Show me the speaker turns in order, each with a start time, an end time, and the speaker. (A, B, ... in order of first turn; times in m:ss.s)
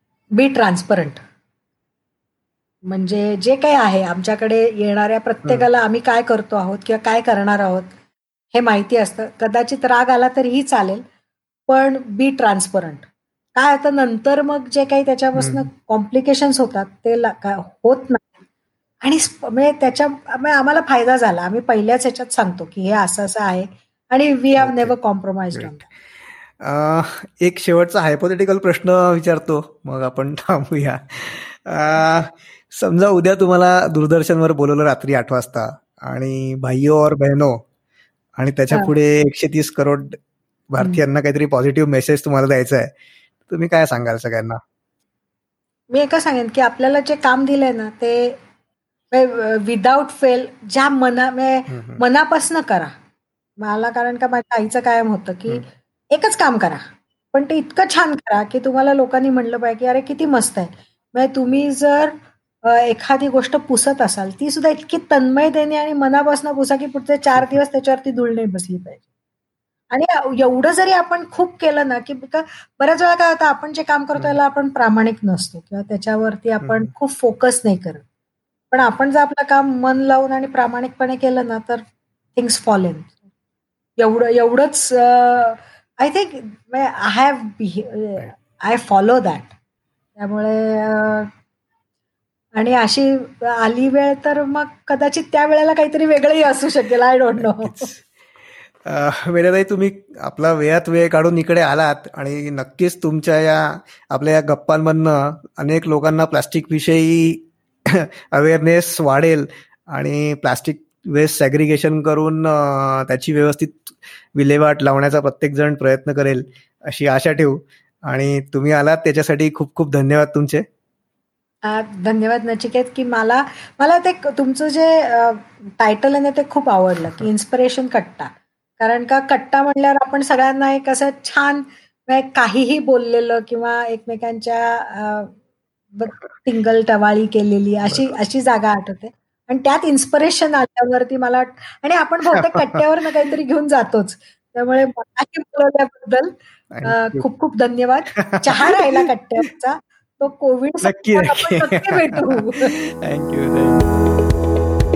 0:00.3-0:01.2 A
0:02.8-0:07.9 A
0:08.5-0:11.0 A
0:11.7-0:18.3 A
0:15.4-0:15.7 B
0:19.0-0:25.9 A
0:24.6-0:24.9 B
0:25.5-0:25.8 B
0:26.6-0:37.6 B
0:38.4-0:40.2 B
0:40.7-0:42.9 B
0:43.5-0:44.6 B
0:45.9-0:48.4 A
0:49.1-0:53.0 A
0:51.7-0:52.0 B
0:53.6-1:09.0 A
1:09.9-1:18.0 A
1:16.6-1:16.9 B
1:18.7-1:21.8 A
1:22.4-1:23.2 A
1:24.0-1:29.5 A
1:30.2-1:31.3 A
1:32.6-1:37.9 A
1:37.4-1:38.0 B
1:38.8-2:00.6 B
2:01.6-2:15.3 A
2:16.0-2:32.8 A
2:17.9-2:18.2 B
2:22.3-2:22.8 B
2:26.7-2:27.2 B
2:28.1-2:29.1 B
2:30.8-2:33.9 B